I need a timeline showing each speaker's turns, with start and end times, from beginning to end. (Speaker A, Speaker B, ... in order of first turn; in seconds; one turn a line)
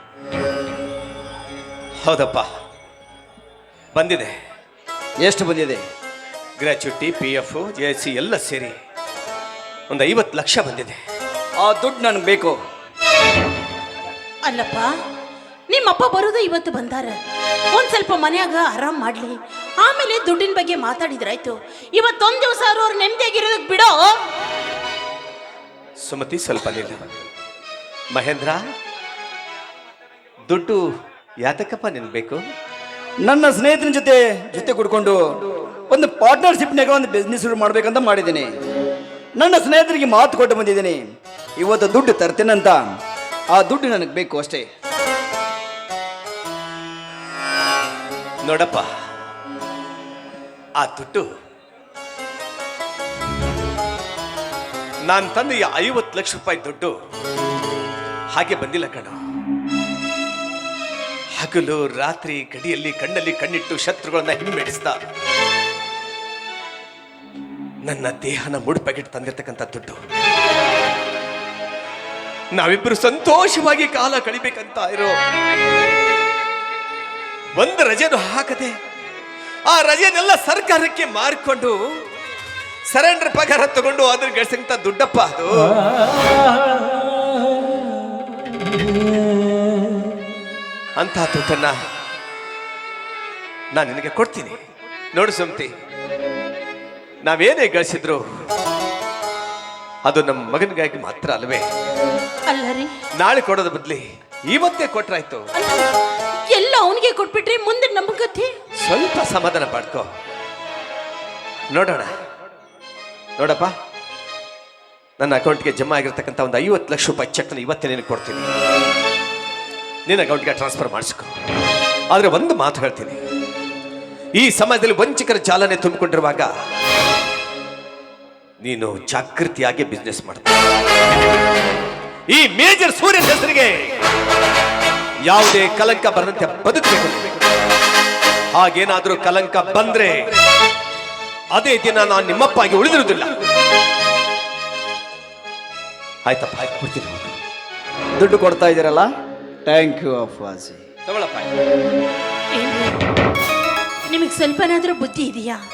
Speaker A: 2.0-2.5
Speaker A: 3.9-4.3
Speaker B: 5.2-5.8
Speaker A: 6.6-8.8
Speaker A: 9.9-11.0
Speaker B: 11.6-12.6
Speaker C: 14.5-14.9
Speaker C: 15.7-17.2
Speaker C: 17.7-24.1
Speaker A: 26.1-27.1
Speaker A: 28.1-28.6
Speaker A: 30.5-30.8
Speaker A: 31.4-32.4
Speaker B: 33.2-35.2
Speaker B: 35.9-38.5
Speaker B: 39.4-41.0
Speaker B: 41.6-42.9
Speaker B: 43.5-44.7
Speaker A: 48.4-48.9
Speaker A: 50.8-51.3
Speaker A: 55.1-56.9
Speaker A: 58.3-59.2
Speaker A: 61.4-65.0
Speaker A: 67.8-70.0
Speaker A: 72.5-75.2
Speaker A: 77.6-78.8
Speaker A: 79.7-81.8
Speaker A: 82.9-85.8
Speaker A: 91.0-91.8
Speaker A: 93.7-94.6
Speaker A: 95.1-95.7
Speaker A: 97.2-98.2
Speaker A: 100.0-101.7
Speaker C: 102.5-102.9
Speaker A: 103.2-105.5
Speaker C: 105.5-105.9
Speaker C: 106.5-108.5
Speaker A: 108.8-110.1
Speaker A: 111.7-112.2
Speaker A: 113.4-113.7
Speaker A: 115.2-118.5
Speaker A: 120.1-121.3
Speaker A: 122.1-123.2
Speaker A: 124.4-126.5
Speaker A: 128.6-130.5
Speaker A: 132.3-133.9
Speaker A: 135.3-137.3
Speaker A: 138.5-140.3
Speaker A: 141.5-143.3
Speaker A: 146.2-147.4
Speaker B: 148.2-149.1
Speaker B: 149.7-150.9
Speaker A: 151.1-151.5
Speaker C: 152.6-153.0
Speaker C: 154.1-155.6